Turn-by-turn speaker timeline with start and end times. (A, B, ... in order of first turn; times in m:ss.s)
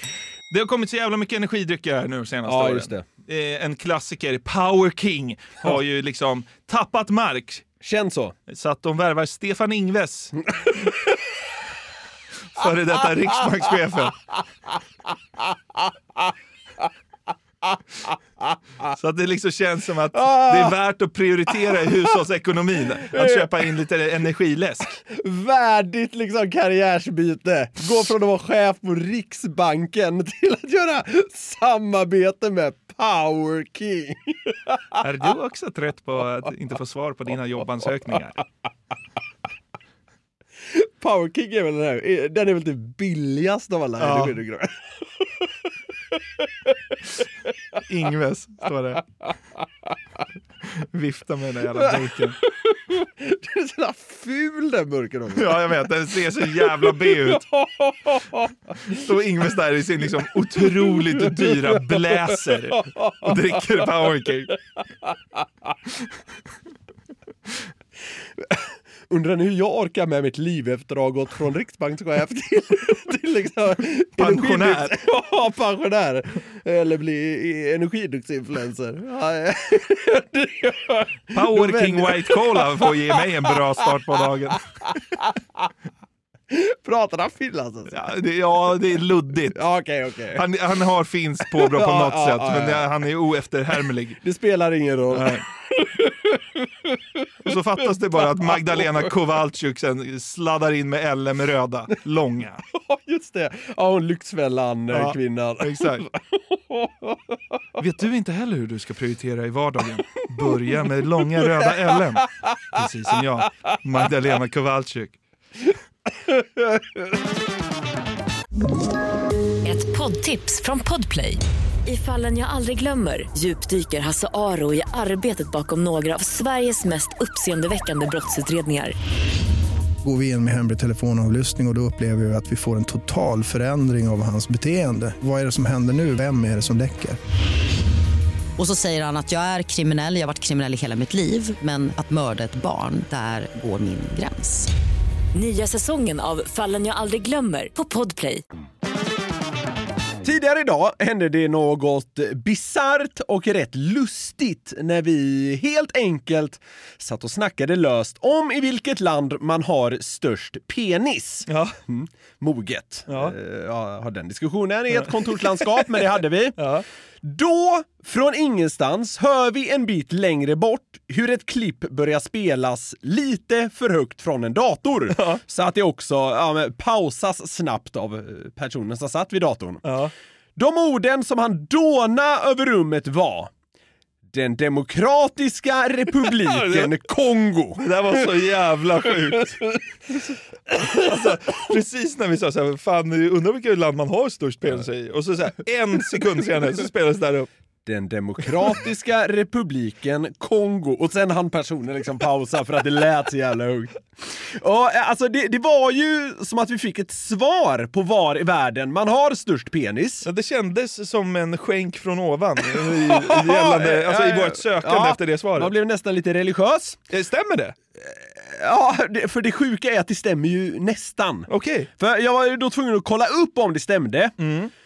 0:00.5-0:07.6 A
0:02.4-0:03.0 B
0:07.8-0:08.4 B
0:08.5-0:10.3 A
0:12.5-0:14.2 A
0:18.9-0:24.9 A
0:20.1-0:20.7 B
0:23.1-0:23.5 B
0:25.0-0:34.8 B
0:35.0-0:38.4 A
0:40.7-0:44.8 B
0:44.0-0:44.4 A
0:47.9-0:49.0 A
0:50.6-0:52.4 A
0:52.4-0:55.8 B
0:55.3-0:57.5 A
0:56.6-0:58.5 B
0:58.8-1:04.6 A
1:02.9-1:03.3 B
1:08.4-1:23.6 B
1:14.2-1:15.0 A
1:21.3-1:24.6 A
1:26.5-1:27.9 B
1:27.9-1:29.6 A
1:29.5-1:30.4 B
1:30.3-1:34.2 A
1:31.6-1:32.9 B
1:34.2-1:36.4 B
1:35.1-1:35.4 A
1:37.4-1:42.6 A
1:38.4-1:38.8 B
1:42.7-1:47.2 B
1:44.9-1:46.0 A
1:47.8-1:55.2 A
1:51.6-1:51.9 B
1:59.6-2:08.9 C
2:10.0-2:17.2 D
2:18.6-2:24.7 E
2:25.3-2:28.4 C
2:30.2-2:46.6 B
2:41.5-2:41.8 A
2:43.1-2:43.3 A
2:44.9-2:46.8 A
2:47.2-2:59.8 B
2:55.1-2:55.4 A
2:59.8-3:00.1 A
3:00.6-3:03.5 B
3:04.3-3:07.8 B
3:06.2-3:06.9 A
3:07.8-3:09.6 A
3:10.7-3:17.5 A
3:17.8-3:30.3 B
3:30.2-3:35.7 A
3:32.8-3:37.0 B
3:37.1-3:37.7 A
3:38.0-3:44.4 B
3:41.5-3:41.9 A
3:44.4-3:44.7 A